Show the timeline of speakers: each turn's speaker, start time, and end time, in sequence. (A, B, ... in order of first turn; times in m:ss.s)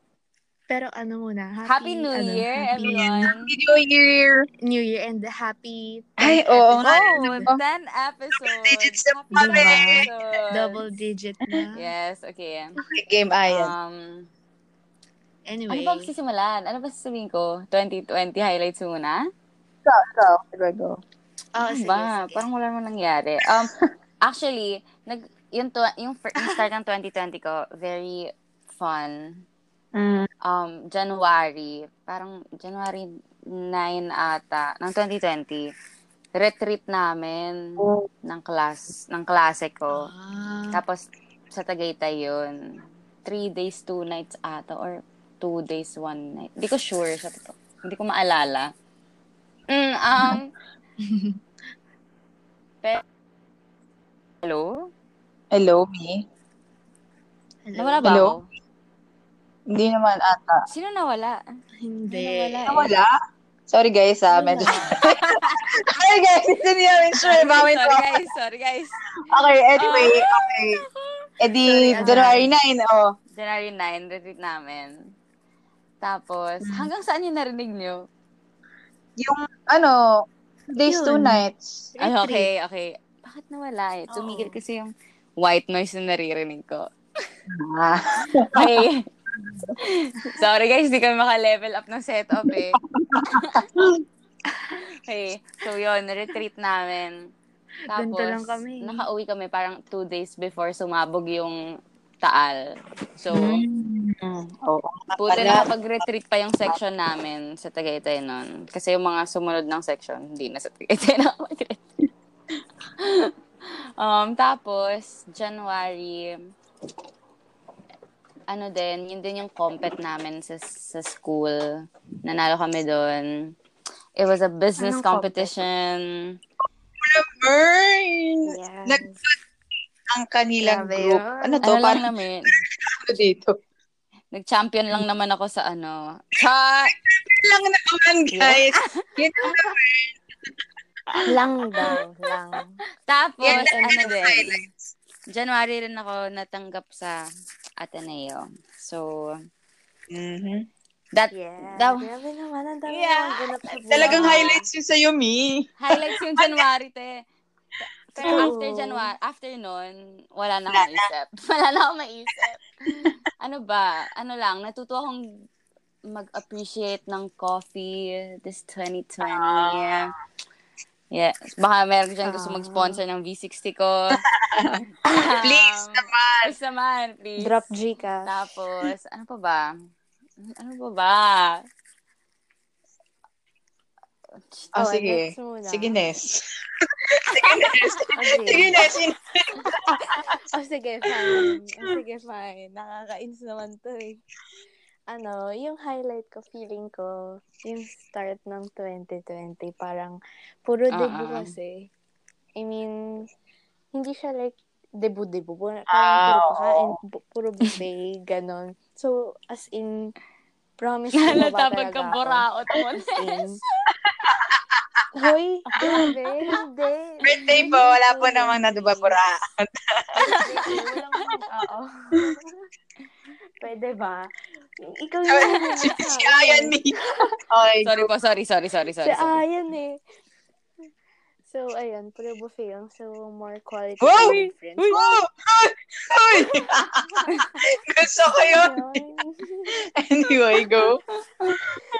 0:00.7-0:03.3 A
0:01.6-0:03.5 B
0:02.8-0:04.5 C
0:04.6-0:07.5 A
0:06.2-0:07.6 C
0:06.8-0:10.8 B
0:08.4-0:10.1 C
0:09.3-0:11.9 A
0:11.8-0:12.8 B
0:12.9-0:13.7 C
0:13.5-0:14.3 B
0:15.5-0:16.1 A
0:15.7-0:19.3 B
0:19.8-0:21.0 C
0:21.6-0:22.5 A
0:21.6-0:23.7 B
0:23.5-0:23.8 C
0:24.2-0:29.4 B
0:30.0-0:30.3 C
0:30.5-0:33.1 B
0:33.7-0:35.7 B
0:36.4-0:37.6 B
0:37.8-0:38.1 C
0:38.2-0:40.1 B
0:40.0-0:40.8 A
0:40.7-0:42.6 B
0:43.2-0:48.7 B
0:49.7-0:50.5 B
0:51.0-0:51.4 A
0:54.4-0:54.9 B
0:55.5-0:56.2 C
0:57.7-0:58.2 A
0:57.8-0:58.5 B
0:58.1-0:58.4 C
0:59.7-1:00.6 C
1:00.7-1:01.4 B
1:01.8-1:03.0 A
1:02.1-1:02.9 B
1:02.7-1:03.1 C
1:03.7-1:08.1 C
1:04.3-1:05.0 A
1:04.7-1:05.8 B
1:07.2-1:09.0 B
1:09.3-1:10.8 C
1:09.8-1:12.4 B
1:11.4-1:13.1 C
1:11.6-1:12.5 A
1:13.4-1:15.0 B
1:16.0-1:18.0 B
1:19.2-1:20.0 C
1:20.7-1:21.9 C
1:20.8-1:21.4 A
1:22.0-1:22.5 A
1:22.0-1:26.9 B
1:24.1-1:24.6 A
1:27.5-1:28.8 C
1:28.5-1:29.1 B
1:29.3-1:29.7 C
1:29.8-1:32.8 B
1:32.5-1:34.0 C
1:33.3-1:33.6 B
1:35.1-1:37.3 B
1:37.9-1:41.6 B
1:37.9-1:39.0 A
1:42.2-1:42.6 B
1:43.2-1:43.6 B
1:43.3-1:45.7 C
1:45.2-1:51.8 B
1:53.0-1:53.3 B
1:54.0-1:56.4 B
1:58.5-2:03.5 B
2:04.2-2:06.4 B
2:04.8-2:05.6 A
2:07.0-2:09.4 C
2:08.5-2:09.2 A
2:10.1-2:13.6 C
2:10.6-2:11.7 A
2:11.6-2:12.6 B
2:14.3-2:16.9 B
2:16.9-2:20.2 C
2:18.4-2:19.0 B
2:21.3-2:22.8 A
2:23.1-2:24.6 B
2:23.4-2:24.7 C
2:23.5-2:24.0 A
2:25.3-2:27.2 B
2:27.8-2:29.4 B
2:30.1-2:30.6 C
2:31.1-2:32.1 B
2:31.3-2:34.6 A
2:32.9-2:33.5 B
2:33.8-2:36.6 C
2:34.0-2:34.6 B
2:35.8-2:37.2 B
2:38.1-2:45.3 B
2:38.2-2:39.1 A
2:40.7-2:41.1 C
2:46.1-2:50.1 B
2:49.3-2:50.0 C
2:51.1-2:54.2 B
2:52.2-2:53.0 A
2:54.2-2:54.8 C
2:55.0-2:57.5 B
2:55.4-2:56.5 C
2:57.4-2:58.3 A
2:58.2-2:59.7 B
3:00.4-3:01.6 B
3:04.8-3:10.3 C
3:04.8-3:06.0 A
3:07.4-3:08.0 B
3:08.2-3:08.8 A
3:10.4-3:14.2 A
3:11.1-3:11.5 C
3:15.1-3:21.9 A
3:20.9-3:21.5 B
3:22.6-3:22.9 A
3:23.9-3:30.1 A
3:25.9-3:27.0 C
3:30.8-3:32.5 A
3:31.2-3:33.4 B
3:33.2-3:33.6 A
3:34.0-3:35.0 C
3:35.2-3:39.2 A
3:35.8-3:36.0 B
3:35.8-3:36.1 C
3:37.2-3:40.1 C
3:37.2-3:37.7 B
3:40.2-3:40.8 B
3:40.3-3:42.6 A
3:43.6-3:44.3 A
3:44.8-3:47.4 A
3:45.3-3:46.9 C
3:47.5-3:48.1 C
3:47.8-3:49.4 B
3:49.0-3:50.0 A
3:51.5-3:55.0 A
3:54.0-3:54.4 C
3:54.2-3:55.2 B
3:54.9-3:59.0 C
3:57.3-3:57.6 B
3:58.3-3:59.7 A
3:59.7-4:01.8 C